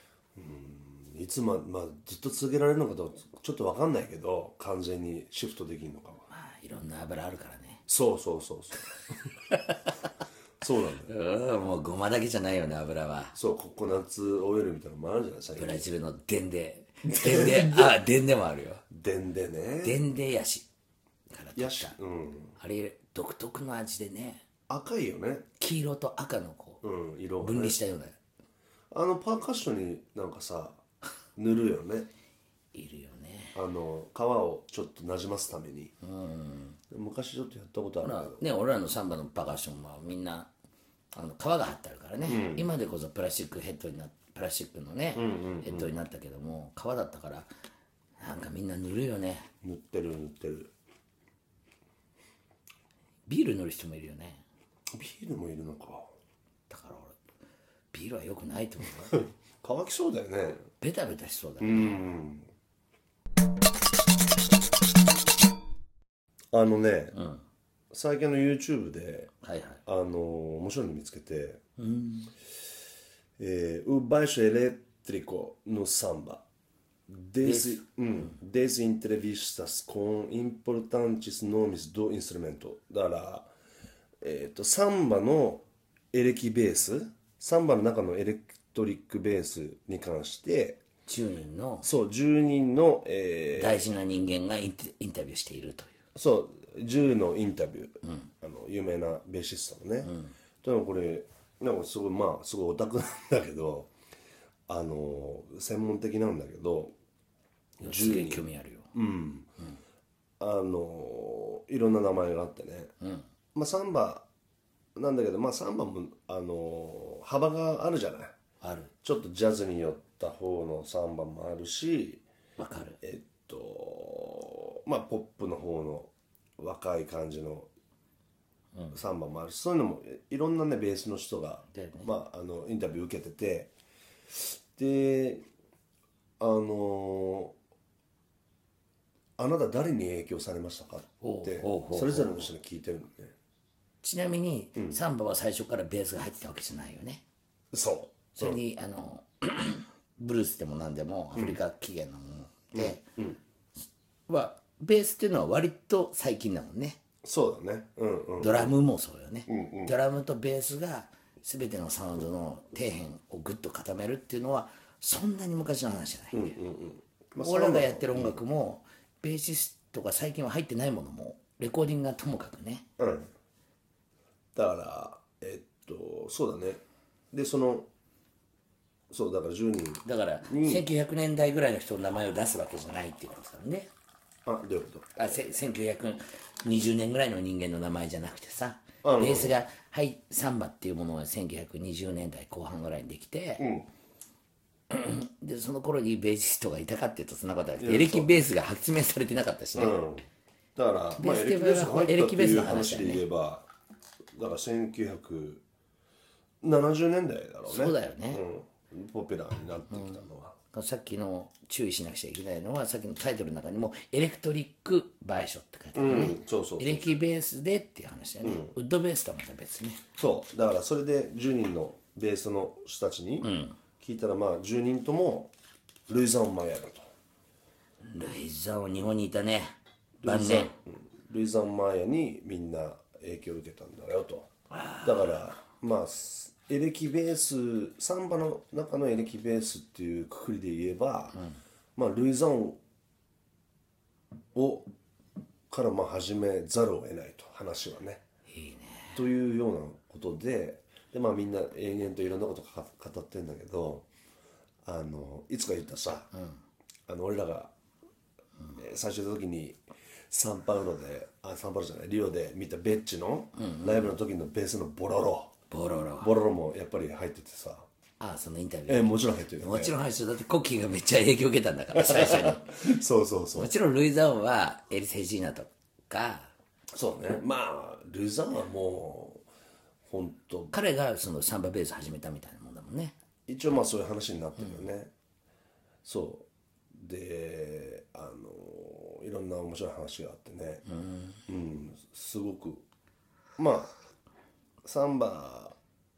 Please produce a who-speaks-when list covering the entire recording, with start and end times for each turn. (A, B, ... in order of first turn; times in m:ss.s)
0:00.4-0:06.2 A
0:06.3-0:07.8 B
0:07.9-0:09.1 A
0:09.5-0:10.0 B
0:10.6-0:11.1 A
0:11.0-0:13.3 B
0:13.3-0:15.9 A
0:15.6-0:18.8 B
0:17.1-0:17.9 A
0:18.9-0:20.0 A
0:19.8-0:20.7 B
0:21.3-0:22.0 B
0:21.6-0:22.6 A
0:22.6-0:24.4 B
0:24.7-0:25.4 A
0:25.6-0:26.8 B
0:26.8-0:27.8 A
0:27.4-0:28.2 B
0:28.9-0:30.8 A
0:31.4-0:32.1 A
0:32.7-0:33.6 B
0:33.5-0:35.9 A
0:36.0-0:36.8 B
0:36.9-0:38.4 A
0:38.0-0:40.5 B
0:41.1-0:47.5 B
0:42.3-0:42.7 A
0:45.1-0:45.9 A
0:48.2-0:49.5 B
0:49.6-0:50.7 A
0:53.3-0:54.4 B
0:54.9-0:56.1 A
0:56.7-0:57.2 B
0:57.9-0:59.2 B
0:59.1-1:00.7 A
1:00.8-1:02.1 B
1:01.6-1:02.5 A
1:06.5-1:07.2 A
1:07.1-1:07.4 B
1:07.9-1:09.3 A
1:09.4-1:09.8 B
1:09.8-1:11.6 A
1:11.8-1:12.3 B
1:13.4-1:16.4 A
1:17.1-1:23.5 A
1:17.4-1:18.3 B
1:24.2-1:30.8 A
1:31.1-1:31.9 B
1:31.8-1:33.8 A
1:33.5-1:35.9 B
1:36.1-1:43.9 A
1:40.0-1:40.3 B
1:44.7-1:46.9 A
1:47.8-1:49.5 A
1:47.8-1:48.9 B
1:50.4-1:52.9 A
1:53.5-1:54.2 A
1:55.0-1:58.3 A
1:58.6-1:58.9 B
1:59.0-2:02.2 A
2:02.6-2:03.0 B
2:03.0-2:07.7 A
2:08.9-2:13.7 A
2:11.7-2:12.1 B
2:14.3-2:15.4 A
2:16.4-2:17.5 A
2:19.4-2:23.3 A
2:21.2-2:22.5 B
2:24.0-2:27.2 B
2:27.7-2:28.6 A
2:28.4-2:33.0 B
2:31.3-2:31.6 A
2:32.7-2:33.4 A
2:34.3-2:37.0 B
2:37.2-2:38.8 A
2:38.4-2:46.5 B
2:39.5-2:39.9 A
2:46.3-2:48.4 A
2:47.4-2:52.9 B
2:53.0-2:53.3 A
2:54.5-2:56.8 A
2:57.3-2:57.9 A
2:59.1-3:00.9 A
3:00.0-3:03.9 B
3:04.4-3:05.4 A
3:05.2-3:13.7 B
3:09.0-3:09.6 A
3:13.6-3:13.9 A
3:14.9-3:20.0 B
3:17.8-3:18.4 A
3:19.7-3:23.7 A
3:21.2-3:23.2 B
3:24.3-3:25.6 A
3:26.6-3:30.5 A
3:27.6-3:28.4 B
3:29.9-3:30.2 B
3:30.7-3:40.0 B
3:35.9-3:37.1 A
3:38.4-3:38.7 A
3:40.2-3:43.5 A
3:43.4-3:43.8 B
3:44.0-3:45.5 A
3:46.1-3:47.1 A
3:48.0-3:50.7 B
3:50.2-3:54.5 A
3:54.7-3:55.3 B
3:55.0-4:01.4 A
4:02.0-4:02.8 A
4:04.5-4:04.9 A
4:05.7-4:08.2 A
4:08.5-4:09.2 B
4:09.1-4:14.1 A
4:14.8-4:16.3 A
4:16.3-4:16.6 B
4:17.1-4:17.7 A
4:18.8-4:19.8 A
4:20.3-4:25.5 A
4:23.6-4:24.1 B
4:25.7-4:26.3 B
4:26.2-4:27.9 A
4:28.2-4:32.8 B
4:28.9-4:29.9 A
4:31.9-4:33.7 A
4:33.5-4:36.5 B
4:36.9-4:39.4 A
4:40.1-4:40.7 A
4:40.7-4:43.2 B
4:43.5-4:45.1 A
4:46.0-4:50.8 A
4:50.8-4:51.4 B
4:51.5-4:52.8 A
4:53.6-4:53.9 A
4:54.8-4:55.8 A